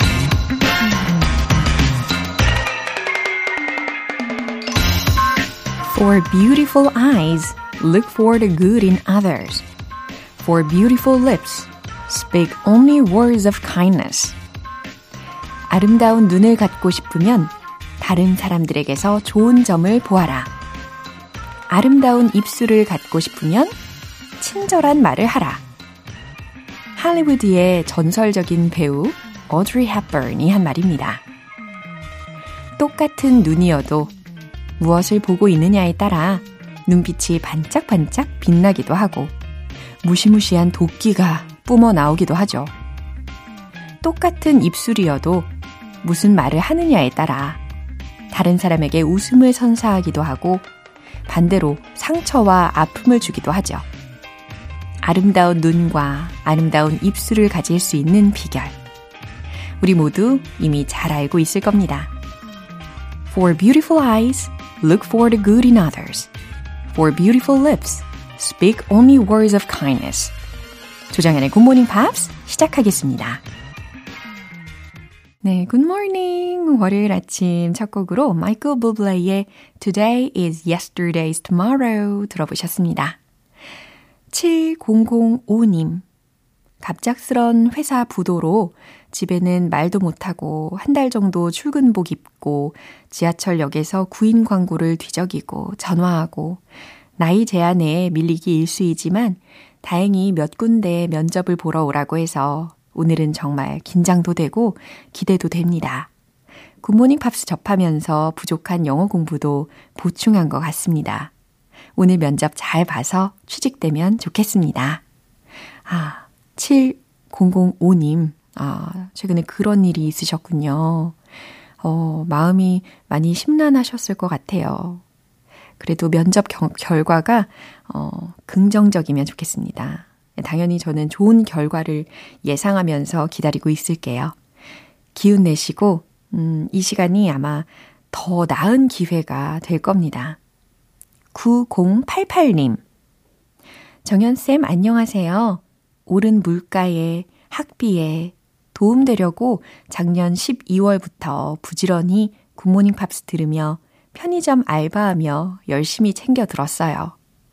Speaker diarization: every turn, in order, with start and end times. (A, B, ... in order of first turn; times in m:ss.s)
0:05.9-0:09.6 A
0:10.4-0:14.4 A
0:15.7-0:20.5 A
0:21.7-0:23.7 A
0:24.4-0:25.6 A
0:27.0-0:31.2 A
0:32.8-0:34.1 A
0:34.8-0:39.3 A
0:40.0-0:42.7 A
0:44.0-0:45.5 A
0:46.0-0:47.6 A
0:48.3-0:50.7 A
0:51.3-0:53.8 A
0:55.0-0:58.7 A
0:59.8-1:02.1 A
1:03.3-1:06.3 A
1:06.9-1:10.3 A
1:11.1-1:13.4 A
1:15.4-1:23.2 A
1:24.3-1:26.0 A
1:26.8-1:36.6 A
1:37.2-1:46.1 A
1:46.8-1:51.3 A
1:52.0-1:55.0 A
1:55.8-2:01.2 A
2:01.8-2:05.0 A
2:05.8-2:14.3 A
2:15.1-2:20.4 A
2:21.3-2:22.8 A
2:24.0-2:37.1 A